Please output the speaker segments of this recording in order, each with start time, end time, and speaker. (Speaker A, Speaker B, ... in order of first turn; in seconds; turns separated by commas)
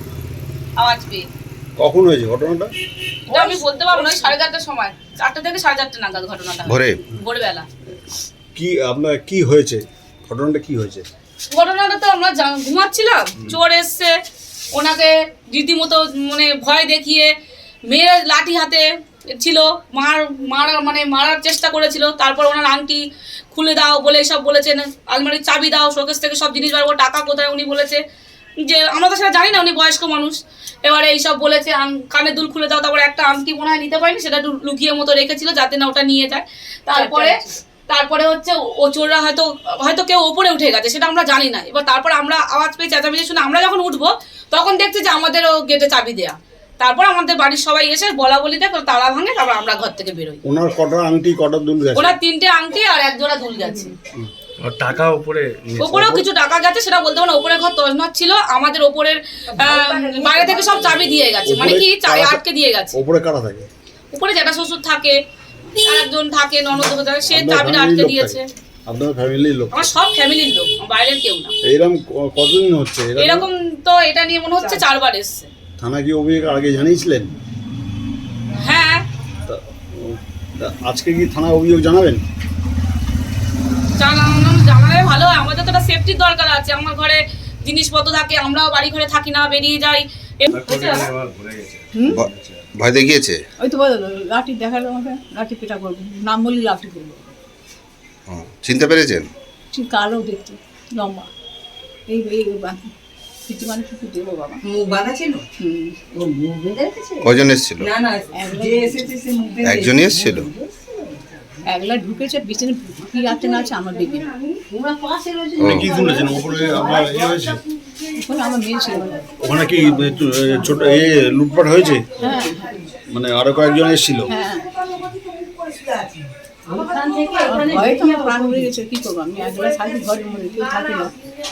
Speaker A: 0.8-1.2, Speaker B: 1.8-2.7, Speaker A: 3.3-7.7, Speaker C: 6.7-7.0, Speaker B: 8.6-11.1, Speaker A: 11.5-14.1, Speaker A: 14.7-17.3, Speaker A: 17.9-18.9, Speaker A: 19.4-23.0, Speaker A: 23.5-28.0, Speaker A: 28.6-50.4, Speaker D: 36.9-37.5, Speaker B: 50.5-52.2, Speaker A: 52.0-54.0, Speaker E: 54.6-55.6, Speaker B: 55.7-56.2, Speaker A: 55.8-62.9, Speaker F: 59.6-61.0, Speaker B: 61.5-62.4, Speaker B: 62.9-63.7, Speaker A: 64.1-65.2, Speaker A: 65.8-68.5, Speaker B: 67.2-70.0, Speaker A: 69.7-71.5, Speaker B: 71.6-73.5, Speaker A: 73.2-75.5, Speaker B: 75.8-77.3, Speaker A: 78.5-79.0, Speaker B: 79.5-82.2, Speaker A: 84.0-91.1, Speaker E: 90.5-92.7, Speaker C: 92.1-93.4, Speaker D: 93.6-97.3, Speaker C: 98.3-99.3, Speaker D: 99.7-101.3, Speaker D: 102.1-102.9, Speaker D: 103.5-104.6, Speaker F: 104.7-105.5, Speaker D: 105.6-106.0, Speaker F: 106.1-111.2, Speaker C: 107.2-107.9, Speaker D: 108.3-109.1, Speaker C: 109.6-110.5, Speaker D: 111.7-114.3, Speaker F: 113.3-117.4, Speaker C: 115.6-115.9, Speaker B: 115.6-117.6, Speaker D: 118.2-120.2, Speaker B: 119.4-122.1, Speaker F: 120.8-121.2, Speaker D: 122.2-122.9, Speaker F: 122.2-122.9, Speaker B: 123.1-124.3, Speaker D: 124.3-124.7, Speaker F: 124.9-128.7, Speaker D: 127.4-131.1, Speaker F: 129.6-130.2, Speaker F: 130.7-131.0